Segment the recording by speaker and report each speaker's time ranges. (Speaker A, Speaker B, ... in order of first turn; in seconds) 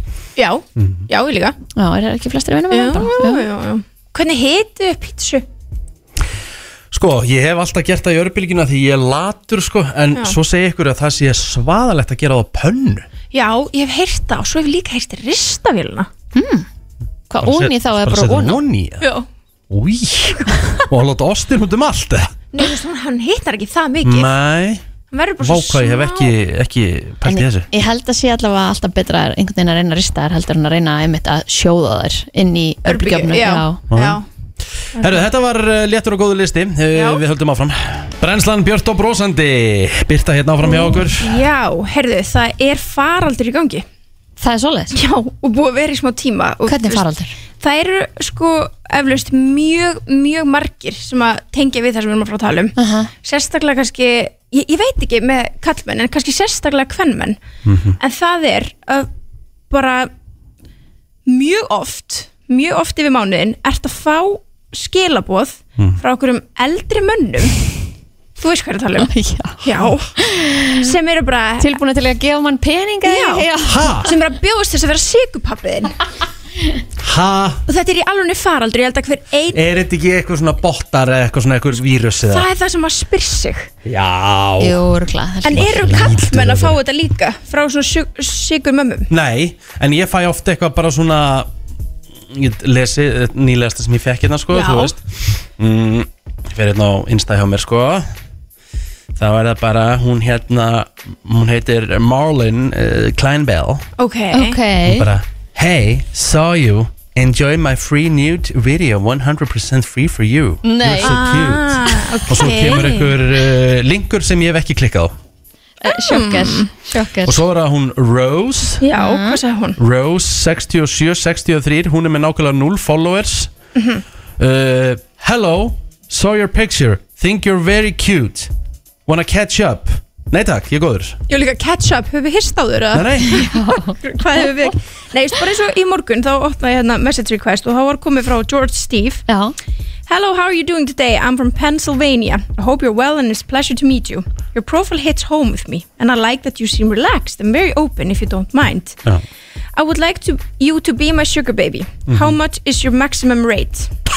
Speaker A: 0.4-1.6, 2.7-5.5, 13.3-16.1, 19.0-19.3, 22.5-24.3, 25.1-26.3, 32.9-34.3, 35.0-35.3, 36.9-37.2, 40.6-43.9, 44.9-47.1, 47.6-57.4, 58.0-59.1, 59.7-60.1, 61.3-67.7, 68.4-69.1, 69.6-70.2, 70.8-71.8, 73.0-76.0, 77.7-79.6, 82.3-83.7, 85.4-89.1, 94.5-95.0, 104.0-104.6, 111.0-113.2, 115.9-116.7, 118.8-119.8, 123.8-124.0, 131.3-139.2, 140.1-149.0, 149.7-153.9
Speaker B: 0.8-1.0, 6.9-13.1, 17.4-19.1, 19.7-22.3, 24.0-24.8, 25.4-27.7, 33.9-34.2, 35.0-41.4, 57.7-58.0, 73.6-74.1, 77.0-77.6, 79.5-82.5, 83.8-84.8, 85.5-86.8, 89.1-91.5, 92.3-98.1, 99.2-103.9, 104.9-115.1, 117.3-118.8, 119.8-123.5, 124.4-128.5, 129.1-131.2, 132.9-133.5, 152.1-152.4
Speaker C: 1.7-3.5, 16.3-16.7, 17.3-18.6, 27.2-33.8, 44.4-45.0, 46.7-47.4, 52.8-53.1, 69.0-69.6, 70.2-71.0, 71.6-74.0, 84.6-86.1, 104.3-105.1, 110.6-111.3, 111.9-112.9, 115.8-117.4, 118.9-119.4, 133.3-133.9, 139.3-139.6